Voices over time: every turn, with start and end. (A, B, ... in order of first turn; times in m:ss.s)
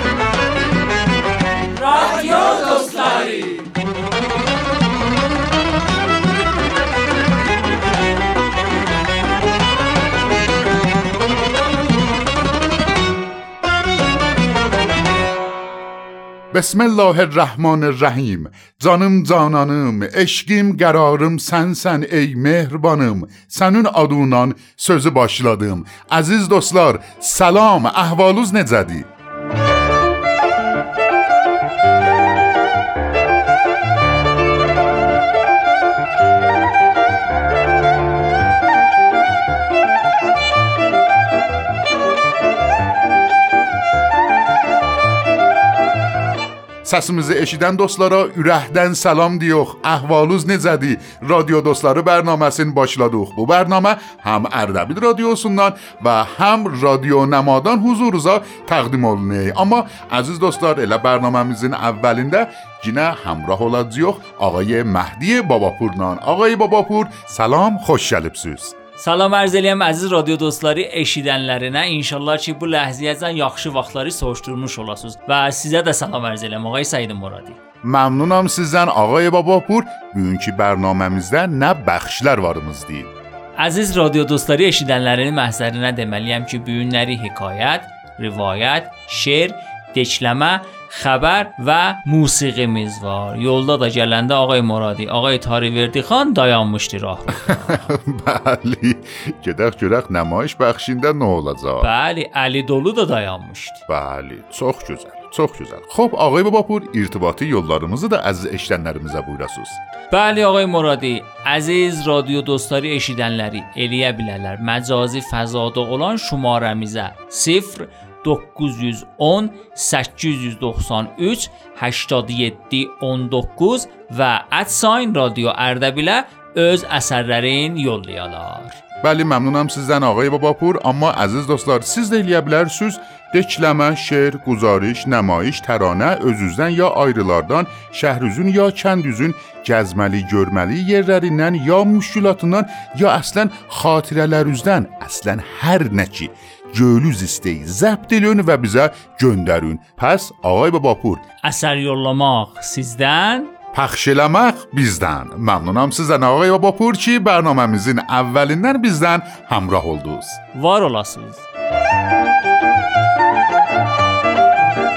0:16.5-0:29.1 A
0:46.8-1:08.7 A
1:09.0-1:17.6 B
1:17.8-1:23.1 A
1:23.6-1:37.8 B
1:37.3-1:41.9 A
1:41.8-1:43.8 B
1:43.9-1:49.8 A
1:50.1-2:08.8 B
2:09.0-2:31.2 A
2:31.4-2:33.5 B
2:33.7-2:40.4 A
2:40.5-2:41.4 B